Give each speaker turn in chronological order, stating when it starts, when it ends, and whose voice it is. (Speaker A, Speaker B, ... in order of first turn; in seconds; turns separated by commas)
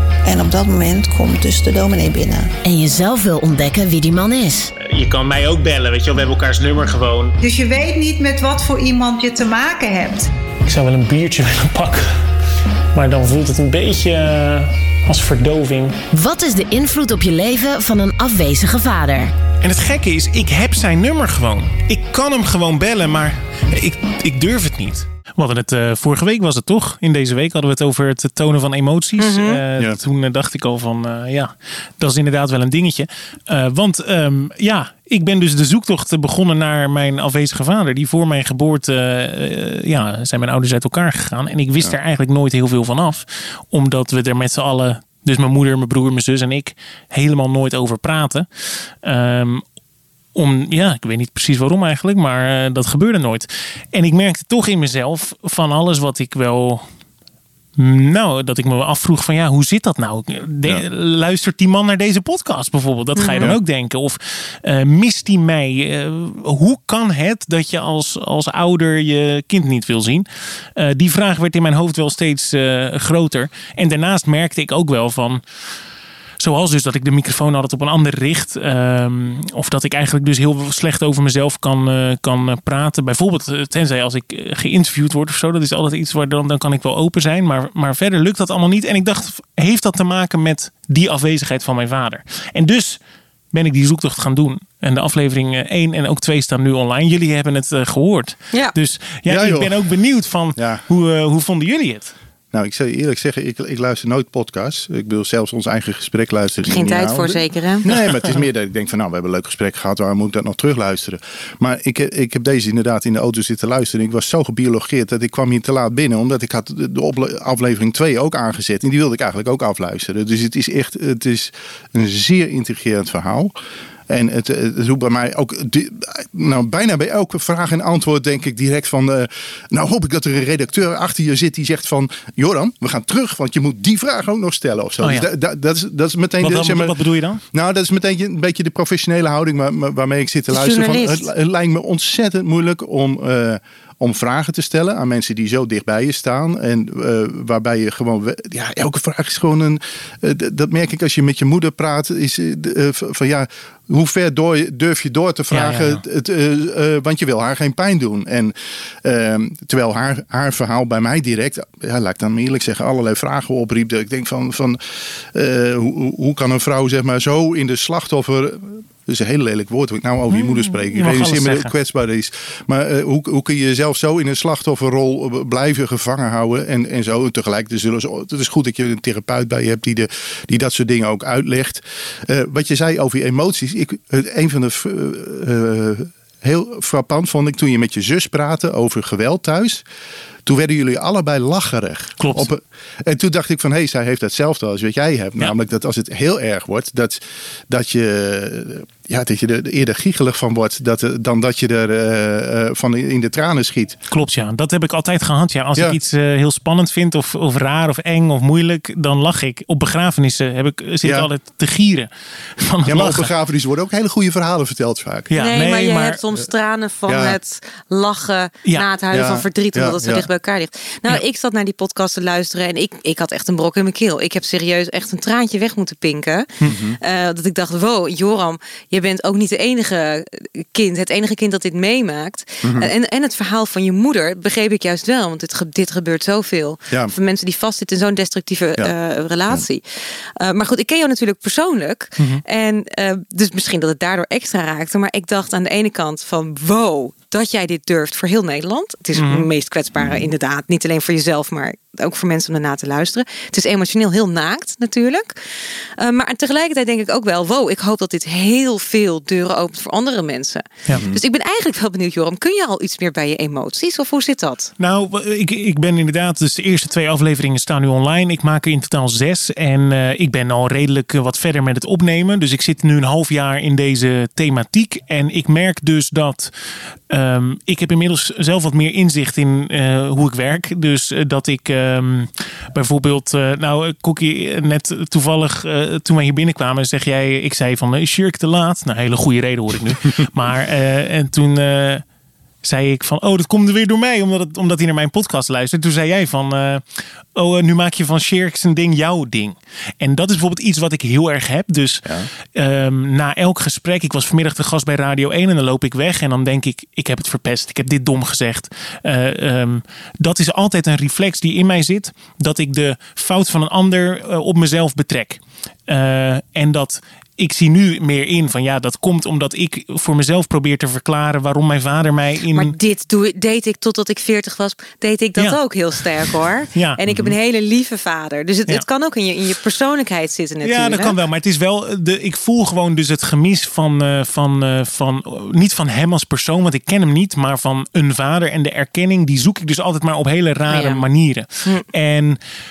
Speaker A: 0.2-2.5, Speaker B: 2.6-4.7, Speaker C: 4.8-7.3, Speaker D: 7.4-10.3, Speaker C: 10.6-12.1, Speaker C: 12.9-16.0, Speaker B: 16.1-19.3, Speaker C: 19.6-48.5, Speaker E: 29.2-29.6, Speaker C: 49.0-49.6, Speaker C: 50.4-56.9, Speaker C: 57.8-75.4, Speaker E: 63.2-63.5, Speaker C: 76.4-93.0, Speaker C: 93.5-102.1, Speaker F: 99.3-99.9, Speaker F: 100.6-100.8, Speaker F: 102.5-123.5, Speaker E: 106.7-107.9, Speaker F: 124.1-137.0, Speaker C: 135.0-135.3, Speaker C: 136.4-137.4, Speaker F: 137.5-164.8, Speaker E: 140.5-141.3, Speaker C: 155.5-156.0, Speaker F: 165.3-189.8, Speaker C: 170.3-171.7, Speaker F: 190.5-204.0, Speaker C: 192.2-192.5, Speaker C: 204.1-213.3, Speaker F: 211.0-211.3, Speaker F: 212.8-215.3, Speaker C: 215.3-216.2, Speaker E: 215.4-239.8, Speaker F: 217.1-217.4, Speaker F: 219.1-220.3, Speaker F: 226.6-227.0, Speaker F: 232.6-232.9, Speaker E: 240.4-255.3, Speaker C: 249.2-249.5, Speaker E: 256.0-264.7, Speaker F: 260.9-261.2, Speaker C: 264.8-276.5, Speaker C: 277.1-292.0, Speaker C: 292.6-322.8, Speaker E: 322.5-331.2, Speaker C: 326.2-327.0, Speaker F: 327.1-327.4, Speaker C: 330.6-342.4, Speaker E: 340.7-341.1